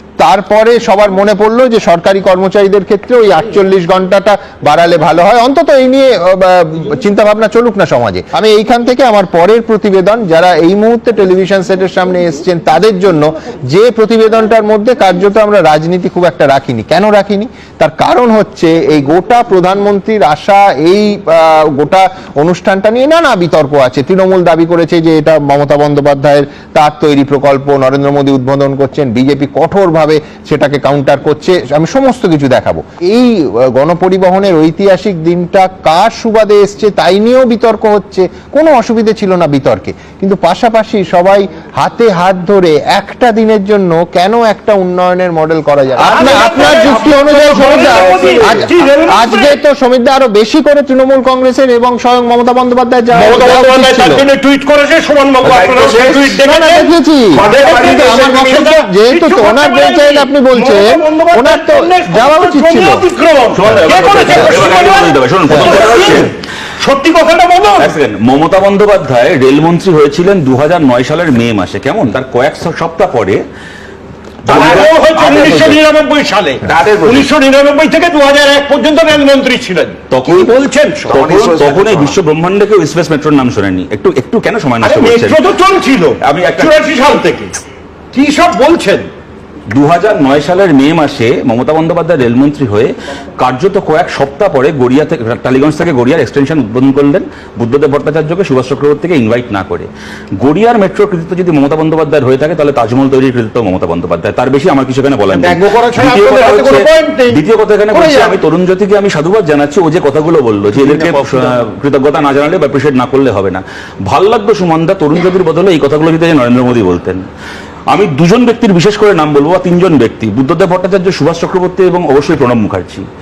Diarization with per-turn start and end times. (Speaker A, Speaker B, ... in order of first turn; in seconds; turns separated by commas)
Speaker A: 0.2-54.2, Speaker B: 46.0-49.6, Speaker C: 47.7-48.6, Speaker B: 53.1-67.9, Speaker C: 55.4-56.4, Speaker A: 56.4-63.0, Speaker C: 57.4-57.8, Speaker C: 63.5-66.3, Speaker A: 64.3-64.6, Speaker C: 67.8-73.4, Speaker C: 74.4-75.8, Speaker B: 74.5-81.3, Speaker C: 76.6-77.3, Speaker C: 80.1-85.4, Speaker B: 84.8-87.6, Speaker C: 86.2-86.8, Speaker B: 88.1-89.1, Speaker C: 89.7-117.3, Speaker B: 105.3-107.4, Speaker B: 107.9-108.4, Speaker B: 110.8-111.3, Speaker C: 117.9-123.0